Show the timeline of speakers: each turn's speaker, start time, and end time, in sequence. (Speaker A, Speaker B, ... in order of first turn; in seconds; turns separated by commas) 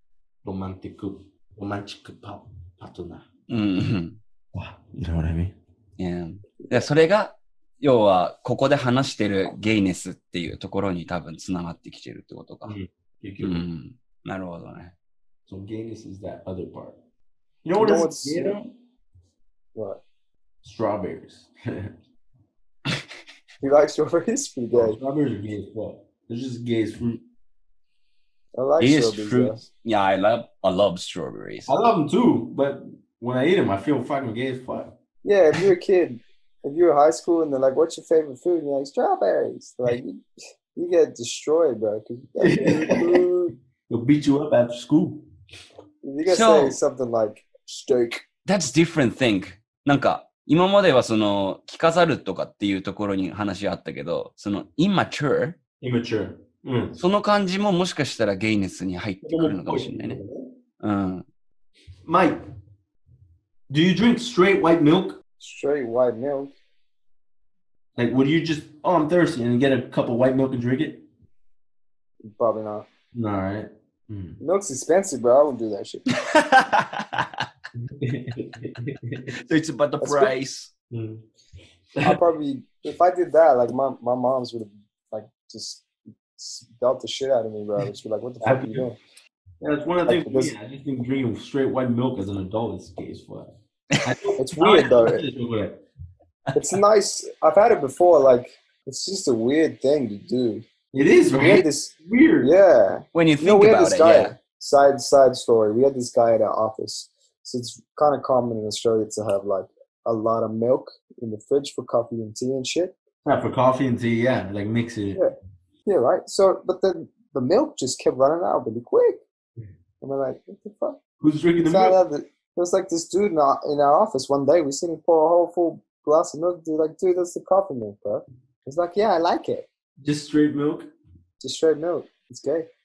Speaker A: 0.4-3.3, Speaker B: 3.5-4.2, Speaker A: 4.5-5.6, Speaker B: 6.0-12.8, Speaker A: 12.7-13.6, Speaker B: 13.4-14.9, Speaker A: 15.5-17.0, Speaker A: 17.6-18.7, Speaker C: 17.8-18.6, Speaker C: 19.8-20.0, Speaker A: 20.6-21.9, Speaker C: 23.6-25.0, Speaker A: 24.7-27.2, Speaker C: 28.6-29.6, Speaker B: 28.8-31.7, Speaker A: 31.7-34.9, Speaker C: 35.2-40.2, Speaker C: 40.8-43.5, Speaker A: 42.4-43.2, Speaker A: 43.9-45.3, Speaker C: 46.0-48.2, Speaker B: 46.2-46.8, Speaker B: 48.5-55.6, Speaker A: 55.8-57.0, Speaker B: 57.0-60.2, Speaker A: 59.2-60.5, Speaker B: 60.8-61.2, Speaker A: 62.1-62.4, Speaker A: 63.7-65.2, Speaker C: 65.4-66.5, Speaker A: 68.0-71.1, Speaker C: 72.3-72.9, Speaker A: 73.1-74.4, Speaker C: 74.4-76.0, Speaker B: 76.1-77.5, Speaker A: 77.8-79.4, Speaker B: 79.4-80.7, Speaker C: 80.0-80.3, Speaker A: 80.9-81.2, Speaker C: 82.0-89.0, Speaker A: 88.4-88.9, Speaker A: 89.6-95.8, Speaker C: 90.1-90.5, Speaker C: 94.4-95.2, Speaker C: 96.5-100.6, Speaker A: 100.9-102.5, Speaker C: 101.4-112.9, Speaker B: 103.2-104.4, Speaker A: 113.2-115.2, Speaker C: 115.9-119.2, Speaker C: 120.0-121.0, Speaker A: 121.2-122.0, Speaker C: 121.6-129.7, Speaker A: 130.0-130.9, Speaker C: 131.4-132.7